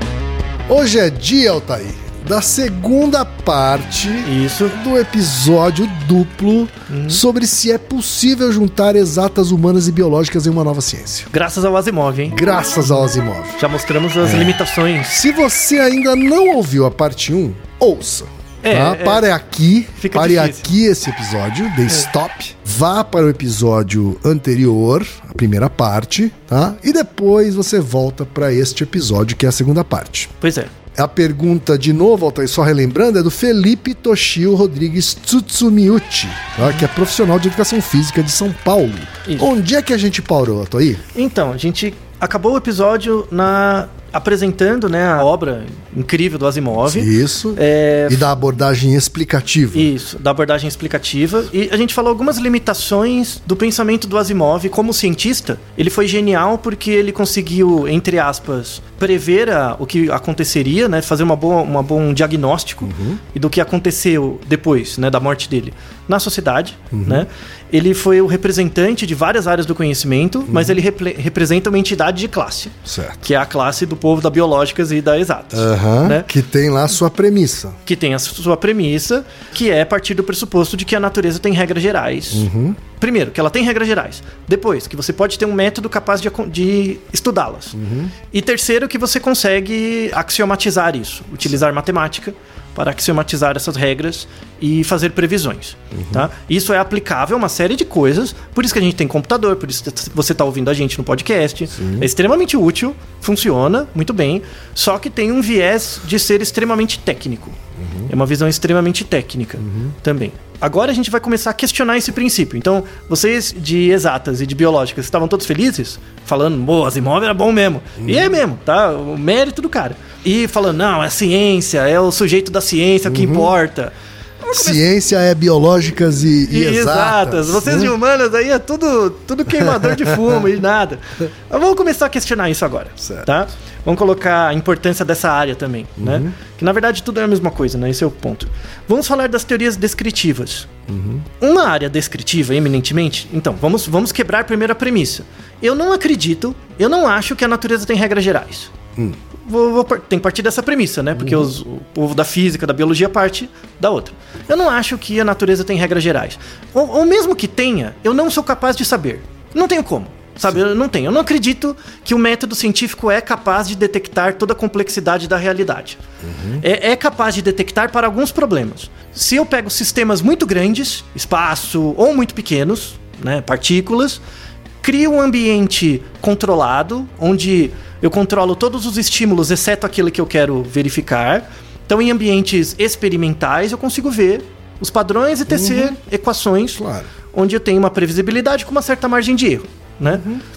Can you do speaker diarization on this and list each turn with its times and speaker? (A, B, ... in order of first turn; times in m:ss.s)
0:00.7-0:11.3 A
0:04.2-0:04.8 B
0:06.9-0:07.2 B
0:11.3-0:12.4 B
0:12.3-0:13.6 A
0:13.6-0:15.1 B
0:14.2-0:30.3 A
0:18.6-0:19.2 B
0:20.0-0:20.7 B
0:30.4-0:30.7 B
0:30.9-0:41.0 A
0:41.1-0:48.2 B
0:46.9-0:49.9 A
0:49.7-1:16.3 B
1:02.8-1:03.2 A
1:06.9-1:07.2 A
1:10.5-1:10.8 A
1:12.8-1:13.3 A
1:15.5-1:17.8 A
1:17.8-1:27.8 B
1:22.3-1:22.8 A
1:27.7-1:28.1 A
1:28.3-2:03.9 B
1:35.9-1:36.2 A
1:41.7-1:42.1 A
1:47.8-1:48.1 A
1:49.6-1:49.9 A
1:58.0-1:58.3 A
2:03.1-2:03.5 A
2:04.4-2:04.8 B
2:04.5-2:07.9 A
2:06.5-2:20.7 B
2:16.0-2:16.3 A
2:20.9-2:21.2 A
2:21.4-2:28.7 B
2:29.4-2:46.0 B
2:31.2-2:31.5 A
2:46.2-2:46.6 A
2:46.6-2:54.2 B
2:54.8-3:06.8 B
3:05.5-3:06.0 A
3:06.8-3:07.1 A
3:07.3-3:10.2 B
3:10.1-3:10.4 A